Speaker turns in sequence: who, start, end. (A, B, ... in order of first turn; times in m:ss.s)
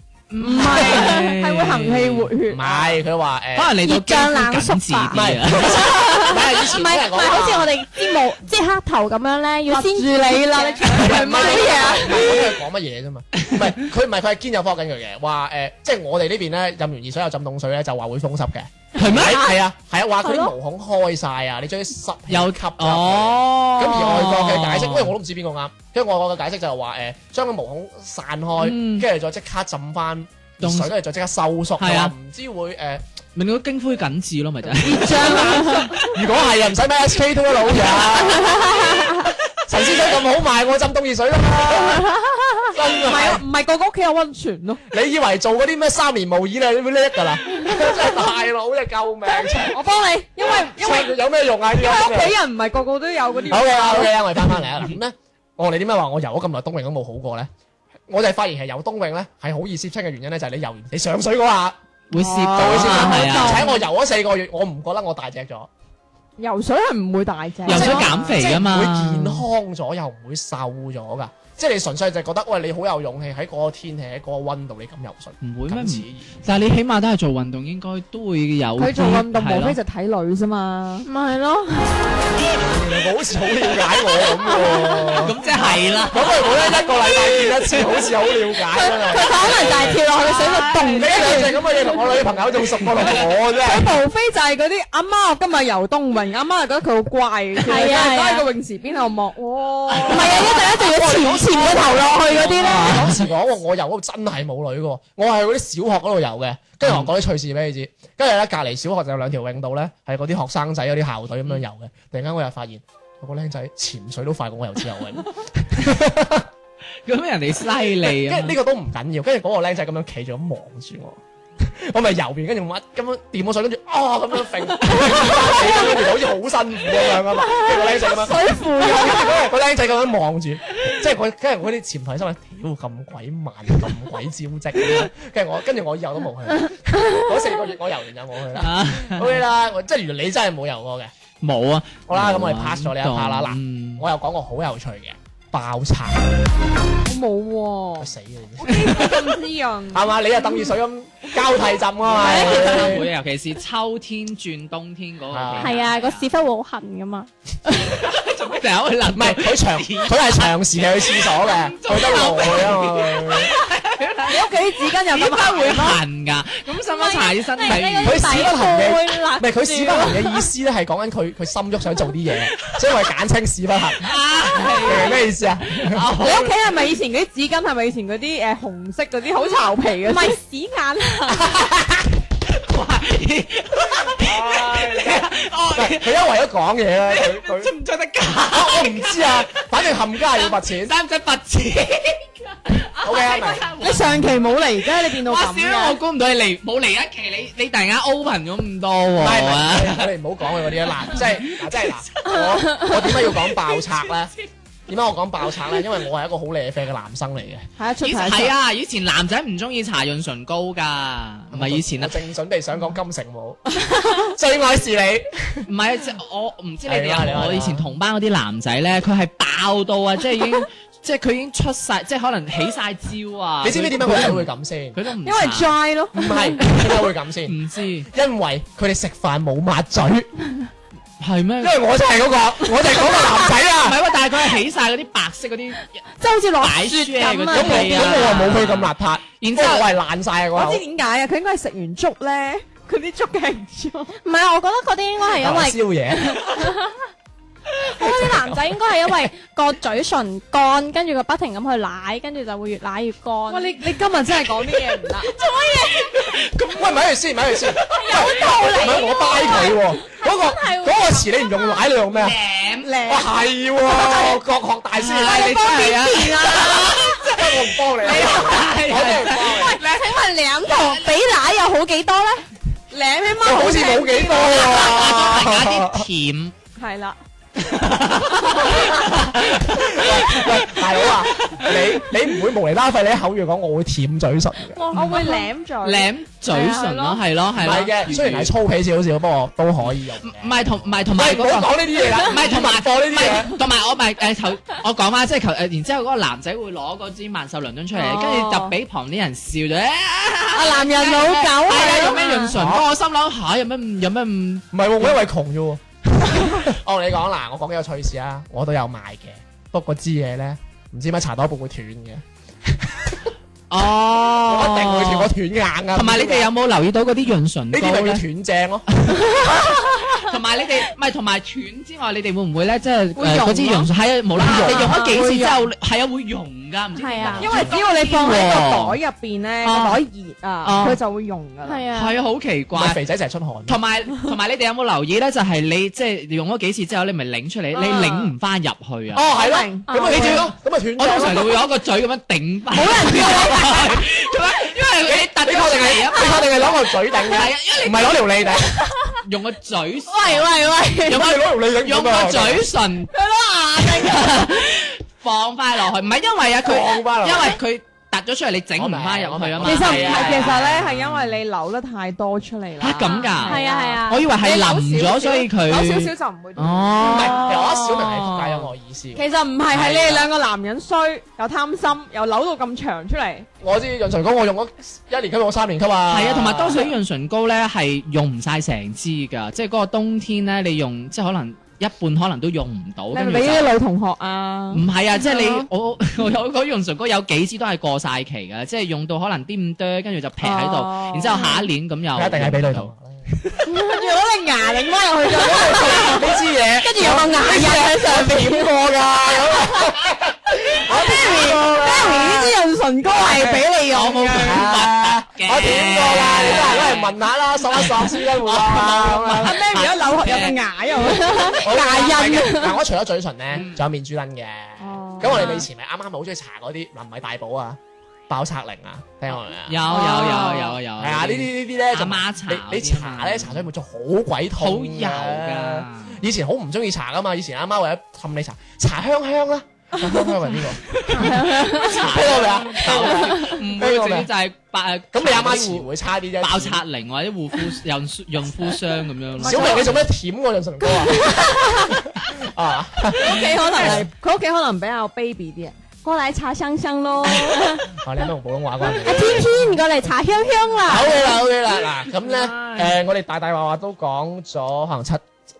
0:00.3-0:02.3 A
0:00.4-0:02.9 B
0:02.5-0:03.8 C
0:03.5-0:05.9 A
0:03.8-0:11.9 D
0:05.1-0:07.7 C
0:09.7-0:12.4 B
0:10.8-0:33.0 C
0:19.0-0:19.4 A
0:20.2-0:20.5 D
0:22.3-0:25.1 A
0:28.6-0:29.0 A
0:30.6-0:30.9 A
0:31.8-0:32.1 A
0:33.3-0:36.1 A
0:34.6-0:42.1 C
0:34.8-0:36.0 B
0:35.4-0:35.8 D
0:38.4-0:39.1 D
0:42.1-0:42.6 D
0:42.7-0:43.4 C
0:43.0-0:44.8 B
0:44.9-0:49.8 C
0:49.7-0:51.2 B
0:50.4-0:52.4 C
0:51.7-0:54.2 B
0:53.5-0:57.5 C
0:58.1-1:01.8 C
1:02.1-1:03.7 A
1:02.1-1:03.7 B
1:02.5-1:05.7 C
1:06.4-1:08.4 B
1:07.6-1:09.4 A
1:07.7-1:16.2 C
1:15.4-1:19.8 A
1:18.8-1:21.1 B
1:21.1-1:21.9 D
1:22.5-1:30.0 C
1:24.6-1:25.2 D
1:25.1-1:26.8 A
1:28.8-1:31.5 B
1:29.3-1:30.7 D
1:29.3-1:31.5 A
1:30.9-1:33.9 C
1:32.8-1:33.2 A
1:33.6-1:40.9 B
1:37.6-1:38.5 D
1:40.0-1:56.5 C
1:40.1-1:42.9 D
1:42.2-1:43.3 A
1:46.8-1:47.1 A
1:57.0-1:58.6 A
1:58.0-2:21.1 C
2:05.0-2:05.5 A
2:08.3-2:09.2 B
2:18.6-2:19.4 A
2:21.4-2:24.0 A
2:22.1-2:26.3 C
2:27.0-2:30.2 B
2:28.0-2:29.4 C
2:29.9-2:33.1 C
2:32.1-2:36.3 A
2:32.2-2:32.8 B
2:35.3-2:35.8 C
2:35.6-2:38.0 D
2:37.8-2:44.5 A
2:39.1-2:43.5 C
2:44.3-2:46.0 B
2:45.0-2:48.5 A
2:46.8-2:50.4 D
2:48.0-2:56.2 C
2:54.0-2:56.6 A
2:56.2-3:00.4 B
3:00.0-3:01.5 D
3:02.3-3:06.2 A
3:04.2-3:07.7 C
3:07.0-3:09.7 A
3:08.5-3:10.9 C
3:10.3-3:14.4 A
3:13.0-3:13.6 C
3:13.8-3:16.0 B
3:14.9-3:22.4 A
3:19.2-3:24.3 C
3:22.3-3:23.0 D
3:23.1-3:24.4 A
3:24.9-3:27.6 C
3:27.8-3:28.5 B
3:28.0-3:32.2 A
3:31.5-3:35.7 C
3:35.7-3:45.7 A
3:36.8-3:37.9 C
3:43.6-3:45.0 C
3:45.2-3:46.5 B
3:46.1-3:47.6 C
3:47.4-3:48.1 A
3:48.1-3:50.3 C
3:51.2-3:51.8 A
3:51.6-3:54.0 C
3:53.0-3:56.0 A
3:56.2-3:58.4 D
3:56.6-3:59.9 A
3:57.5-4:00.8 C
4:00.5-4:04.2 B
4:04.2-4:07.0 D
4:05.3-4:06.4 C
4:07.9-4:13.8 D
4:08.0-4:08.8 C
4:13.5-4:15.3 B
4:15.3-4:16.2 D
4:15.4-4:17.1 A
4:16.7-4:22.4 C
4:17.6-4:18.3 A
4:17.9-4:21.8 D
4:18.1-4:19.6 B
4:22.1-4:22.9 A
4:22.8-4:23.3 B
4:23.0-4:25.7 C
4:23.9-4:24.2 B
4:25.0-4:31.2 A
4:25.2-4:27.0 B
4:26.7-4:29.8 C
4:28.1-4:31.0 B
4:30.6-4:32.4 D
4:32.9-4:34.9 B
4:33.4-4:36.1 C
4:34.5-4:36.5 A
4:36.8-4:37.2 B
4:37.6-4:41.8 A
4:38.7-4:44.8 C
4:44.7-4:45.5 D
4:44.9-4:45.2 A
4:44.9-4:46.1 B
4:45.8-4:48.5 A
4:46.5-4:47.2 D
4:47.6-4:53.6 C
4:50.2-5:05.2 A
4:57.9-4:58.7 B
5:00.5-5:02.5 B
5:02.5-5:02.9 C
5:04.7-5:13.3 C
5:13.7-5:15.3 A
5:14.4-5:16.5 C
5:15.9-5:18.2 A
5:17.7-5:18.8 C
5:19.0-5:29.0 A
5:19.9-5:20.2 D
5:23.2-5:25.7 B
5:24.4-5:24.9 C
5:24.7-5:25.2 D
5:27.0-5:27.9 D
5:27.4-5:31.9 B
5:29.6-5:30.0 A
5:30.6-5:31.0 A
5:31.6-5:32.2 D
5:31.9-5:33.0 A
5:32.7-5:33.8 C
5:33.7-5:39.3 A
5:37.7-5:38.3 B
5:39.1-5:41.7 C
5:39.3-5:40.4 B
5:39.9-5:40.4 D
5:40.1-5:48.5 A
5:42.7-5:44.0 B
5:45.0-5:48.8 C
5:49.2-5:53.1 A
5:50.1-5:51.2 D
5:51.1-5:52.7 C
5:53.1-5:54.5 B
5:53.8-6:01.4 A
5:56.6-5:57.6 C
5:58.7-6:00.7 C
5:59.6-6:08.2 B
6:02.8-6:08.6 A
6:03.0-6:04.2 D
6:07.0-6:10.3 C
6:09.1-6:13.5 B
6:13.6-6:16.9 C
6:16.1-6:23.7 A
6:23.1-6:24.8 B
6:24.7-6:32.9 A
6:25.3-6:25.6 D
6:30.4-6:31.5 B
6:32.1-6:33.3 C
6:33.6-6:38.7 B
6:35.3-6:42.6 C
6:40.8-6:44.7 B
6:43.2-6:47.1 A
6:44.3-6:49.6 C
6:47.7-6:50.6 A
6:48.8-6:52.5 B
6:51.2-6:52.7 D
6:51.5-7:00.0 C
6:53.5-6:53.8 A
6:54.8-6:55.6 B
6:59.7-7:03.7 A
6:59.9-7:00.8 B
7:00.9-7:14.3 C
7:04.6-7:06.2 A
7:10.9-7:15.9 A
7:11.2-7:12.0 D
7:15.1-7:16.8 C
7:16.4-7:20.1 A
7:19.4-7:24.1 C
7:19.4-7:19.8 B
7:21.0-7:21.9 B
7:23.2-7:27.8 B
7:23.8-7:24.0 A
7:27.5-7:27.8 D
7:27.9-7:30.1 C
7:29.0-7:31.3 D
7:30.8-7:35.2 C
7:32.1-7:32.9 A